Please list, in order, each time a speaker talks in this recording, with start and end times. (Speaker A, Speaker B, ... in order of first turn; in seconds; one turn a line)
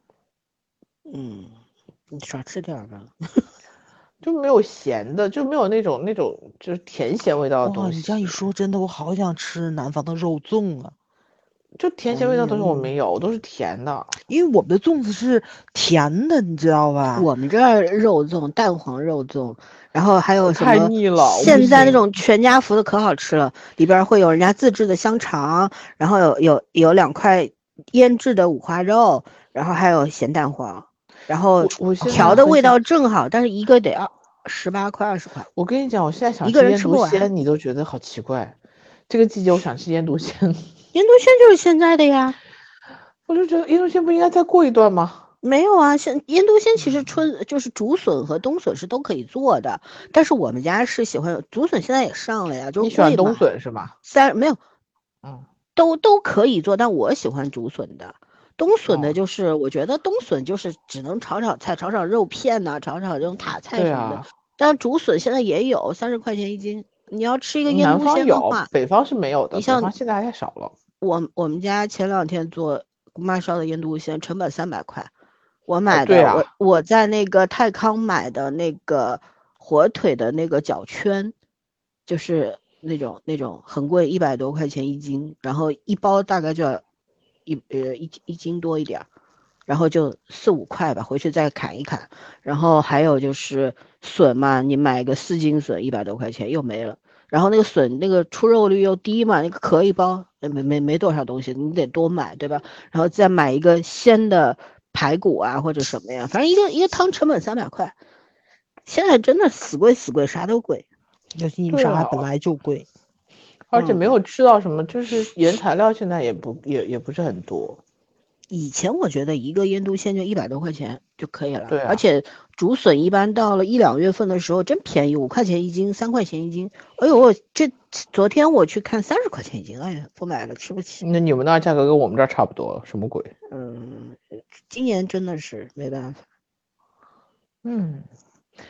Speaker A: 1.1-1.5
Speaker A: 2.1-3.4
Speaker B: 4.2-8.5
Speaker C: 7.6-10.9
Speaker B: 11.8-14.2
Speaker A: 12.1-12.9
Speaker C: 14.3-17.3
Speaker A: 17.1-35.5
Speaker B: 20.4-22.0
Speaker C: 21.5-21.8
Speaker B: 31.6-32.8
Speaker C: 32.1-32.5
Speaker B: 35.5-38.5
Speaker A: 36.4-37.3
Speaker B: 39.1-40.7
Speaker A: 40.9-42.4
Speaker B: 43.3-45.2
Speaker A: 45.4-53.4
Speaker B: 46.8-47.2
Speaker B: 52.8-53.9
Speaker A: 54.0-54.6
Speaker A: 55.8-68.7
Speaker B: 58.9-59.2
Speaker B: 63.7-64.3
Speaker B: 67.7-70.7
Speaker A: 69.5-69.9
Speaker A: 71.0-75.1
Speaker A: 75.7-81.3
Speaker B: 75.9-76.5
Speaker A: 82.1-86.8
Speaker A: 87.5-89.1
Speaker A: 89.7-107.9
Speaker A: 108.8-110.8
Speaker C: 111.3-112.9
Speaker B: 111.7-112.3
Speaker B: 113.7-117.8
Speaker A: 113.7-114.1
Speaker A: 118.5-131.0
Speaker B: 121.7-122.0
Speaker B: 131.0-133.3
Speaker A: 133.5-136.2
Speaker B: 137.6-138.1